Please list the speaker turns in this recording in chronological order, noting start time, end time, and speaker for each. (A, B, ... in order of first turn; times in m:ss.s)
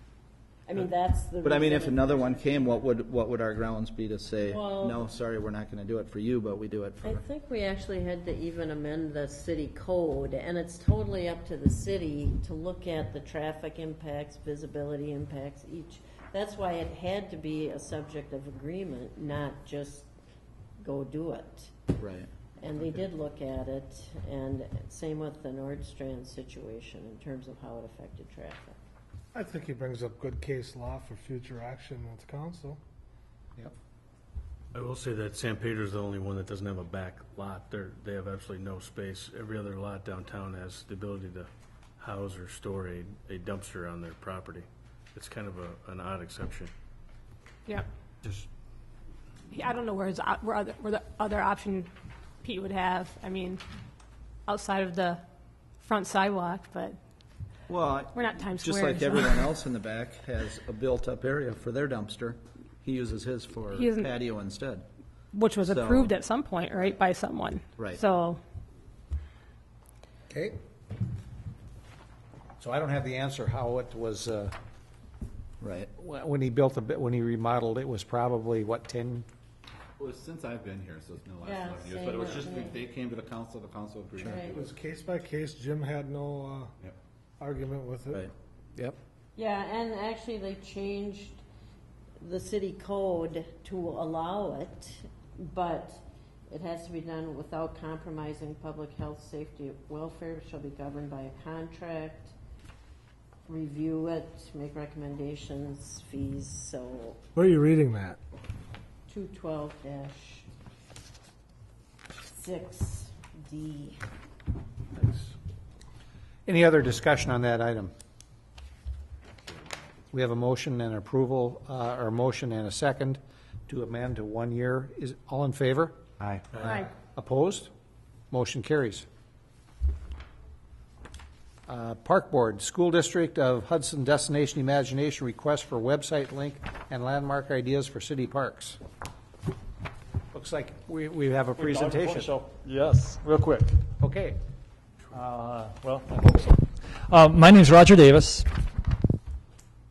0:00.7-0:02.8 A
0:01.4-0:07.2 B
0:04.4-0:05.0 A
0:07.0-0:20.1 A
0:20.8-0:21.8 A
0:22.0-0:22.3 B
0:22.6-0:28.8 A
0:29.3-0:32.8 C
0:34.7-0:41.5 D
0:42.0-0:46.7 D
0:49.5-0:51.9 E
0:52.4-0:53.6 E
0:54.5-0:55.2 E
0:55.8-0:57.0 E
0:57.7-1:04.9 B
0:58.1-0:59.5 E
1:03.7-1:04.1 E
1:05.3-1:08.4 E
1:05.6-1:06.1 B
1:10.3-1:10.6 F
1:12.6-1:14.6 F
1:15.6-1:15.9 B
1:16.0-1:19.3 F
1:20.0-1:24.8 G
1:21.4-1:22.8 A
1:24.2-1:24.7 A
1:24.8-1:26.7 C
1:27.4-1:28.2 C
1:29.4-1:31.4 A
1:32.2-1:42.3 A
1:43.5-1:47.2 A
1:47.4-1:48.2 C
1:49.1-1:50.5 A
1:52.2-1:54.0 A
1:56.5-1:57.9 F
2:00.1-2:06.0 F
2:06.5-2:06.8 D
2:06.6-2:07.7 F
2:08.3-2:09.1 F
2:11.7-2:18.8 F
2:20.3-2:22.4 F
2:21.7-2:23.6 H
2:24.0-2:24.4 F
2:25.1-2:28.5 H